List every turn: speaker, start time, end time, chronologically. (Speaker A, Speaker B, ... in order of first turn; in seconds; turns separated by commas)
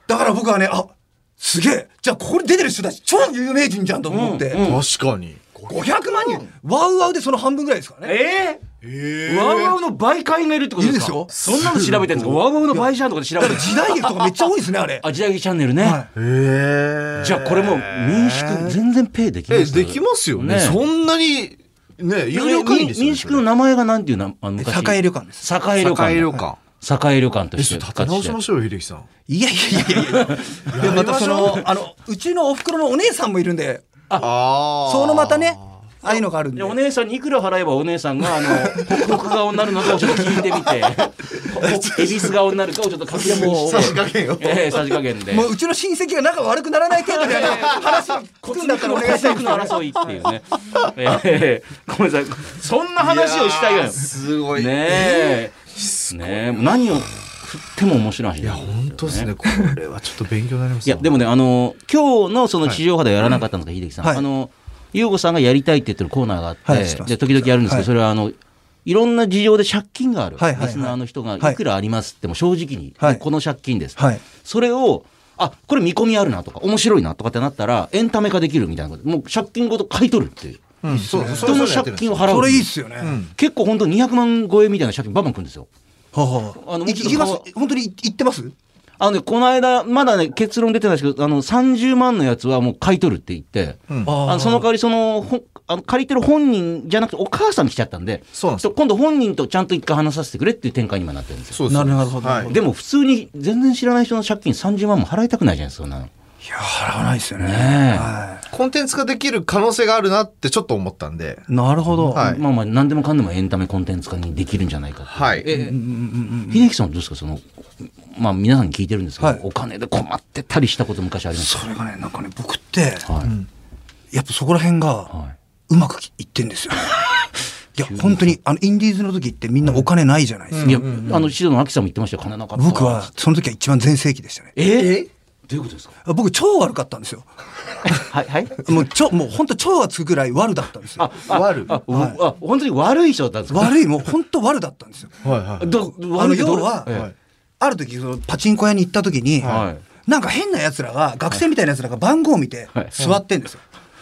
Speaker A: 0.1-4.6, Speaker B: 4.1-4.8, Speaker C: 4.6-5.9, Speaker A: 5.7-8.2, Speaker B: 8.0-8.6, Speaker C: 8.8-9.8, Speaker B: 9.2-14.5, Speaker A: 10.8-11.3, Speaker C: 11.3-12.4, Speaker A: 13.4-15.0, Speaker B: 15.0-16.0, Speaker A: 15.8-16.1, Speaker C: 16.1-18.8, Speaker B: 17.2-20.8, Speaker C: 19.5-23.4, Speaker B: 22.3-28.4, Speaker A: 24.6-25.5, Speaker C: 25.8-26.6, Speaker C: 27.6-29.1, Speaker A: 29.3-34.0, Speaker B: 29.9-30.8, Speaker C: 30.7-31.7, Speaker C: 34.2-35.6, Speaker A: 34.8-36.8, Speaker B: 36.0-45.5, Speaker C: 41.6-42.4, Speaker C: 43.1-45.0, Speaker A: 43.2-44.0, Speaker A: 45.3-49.8, Speaker B: 47.1-59.3, Speaker C: 53.0-56.6, Speaker C: 58.4-61.1, Speaker B: 60.9-82.7, Speaker A: 66.7-67.9, Speaker A: 70.4-71.6, Speaker A: 74.0-74.2, Speaker C: 80.8-83.3, Speaker A: 80.9-81.7, Speaker A: 82.3-83.2, Speaker B: 83.3-85.7, Speaker A: 86.1-88.5, Speaker B: 86.6-87.5, Speaker B: 89.0-101.6, Speaker A: 94.0-94.7, Speaker C: 98.4-98.7, Speaker C: 101.5-102.5, Speaker A: 101.7-102.6, Speaker B: 102.5-106.1, Speaker A: 106.4-108.4, Speaker B: 107.4-108.1, Speaker C: 108.5-111.4, Speaker A: 111.5-112.2, Speaker C: 112.1-112.4, Speaker B: 112.1-115.8, Speaker C: 115.1-115.5, Speaker A: 115.5-116.7, Speaker B: 116.5-121.6, Speaker A: 121.3-123.1, Speaker B: 123.0-123.3, Speaker A: 124.1-125.1, Speaker A: 125.7-127.0, Speaker A: 127.8-130.9, Speaker B: 127.9-128.3, Speaker C: 130.5-131.2, Speaker B: 130.6-133.1, Speaker A: 132.6-134.5, Speaker B: 134.6-135.9, Speaker C: 134.8-135.1, Speaker A: 136.1-137.3, Speaker B: 138.0-138.6, Speaker A: 138.6-141.1, Speaker B: 141.0-143.8, Speaker C: 141.3-141.7, Speaker A: 141.8-142.2, Speaker A: 143.5-145.2, Speaker C: 145.2-145.7, Speaker B: 145.6-147.1, Speaker A: 146.0-147.0, Speaker C: 146.9-147.1, Speaker A: 147.6-153.6, Speaker C: 149.4-149.7, Speaker B: 149.4-149.8